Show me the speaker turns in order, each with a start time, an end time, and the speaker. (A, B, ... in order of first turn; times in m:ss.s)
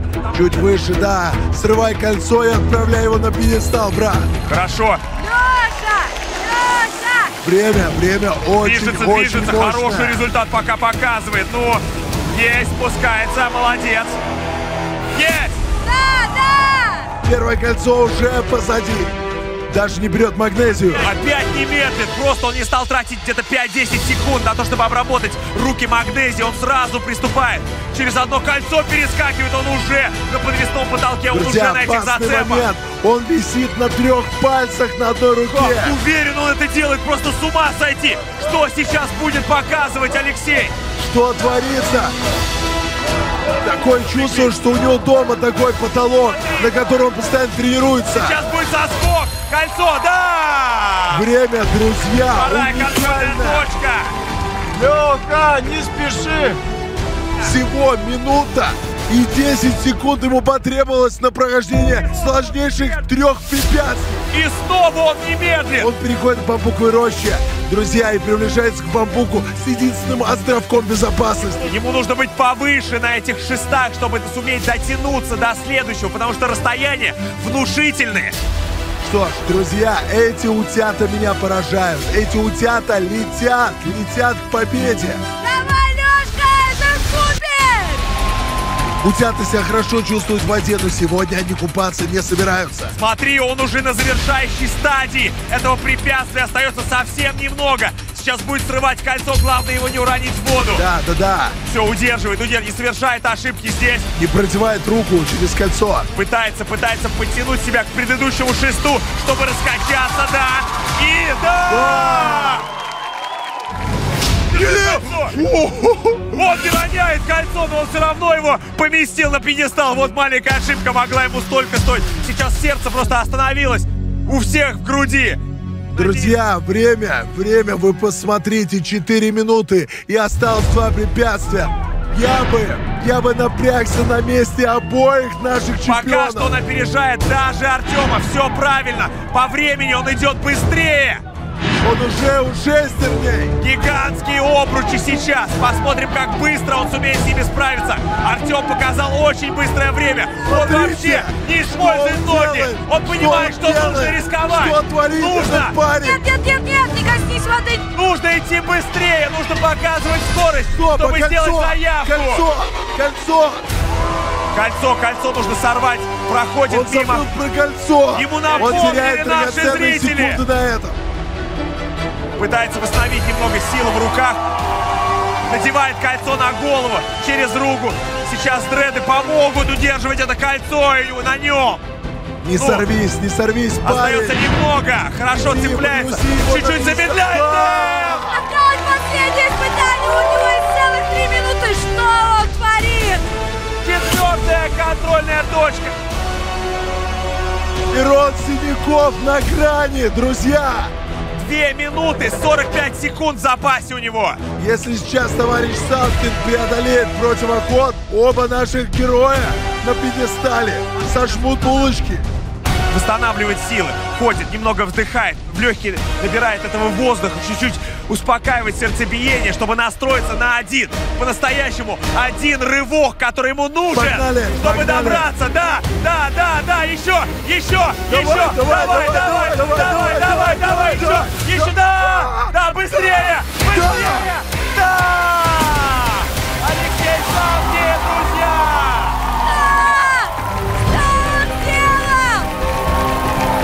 0:00.3-0:04.3 A
0:04.5-0:05.0 B
0:05.2-0:07.4 C
0:07.4-0:10.2 A
0:08.6-0:14.2 B
0:15.1-0:15.6 B
0:15.8-0:17.1 C
0:17.2-0:19.2 A
0:19.7-0:21.1 A
0:21.0-0:32.7 B
0:31.3-0:36.0 A
0:35.5-0:40.7 B
0:41.0-0:42.2 A
0:43.6-0:48.4 A
0:44.2-0:44.5 B
0:46.4-0:46.7 B
0:48.2-0:51.2 B
0:51.1-0:53.7 A
0:52.3-0:54.1 B
0:57.4-1:04.2 A
1:01.9-1:03.0 B
1:04.3-1:05.9 B
1:05.8-1:11.7 A
1:11.6-1:18.4 B
1:19.0-1:25.2 A
1:25.4-1:28.1 C
1:29.0-1:32.9 A
1:33.0-1:40.8 B
1:40.7-1:41.6 A
1:41.7-1:44.1 B
1:44.2-1:46.1 A
1:46.2-1:52.6 B
1:51.7-1:52.6 A
1:54.5-1:55.4 B
1:54.5-1:56.3 A
1:56.3-2:05.4 B
2:05.9-2:06.3 B
2:06.0-2:16.5 A
2:15.9-2:21.2 B
2:21.8-2:23.6 A
2:23.6-2:35.8 B
2:30.5-2:36.2 A
2:36.0-2:37.9 C
2:38.0-2:42.4 B
2:40.7-2:43.6 A
2:44.5-2:47.2 B
2:46.7-2:51.0 A
2:48.2-2:50.4 B
2:52.4-2:54.4 B
2:55.5-3:01.8 B
3:02.4-3:04.4 A
3:02.6-3:02.8 B
3:03.8-3:08.2 B
3:05.3-3:08.4 A
3:08.3-3:13.2 C
3:13.8-3:15.9 B
3:17.9-3:20.9 A
3:21.4-3:24.4 B
3:24.6-3:32.2 A
3:32.9-3:59.2 B
3:43.9-3:45.3 A
3:48.1-3:54.3 A
3:59.4-4:00.3 C
4:00.9-4:02.5 C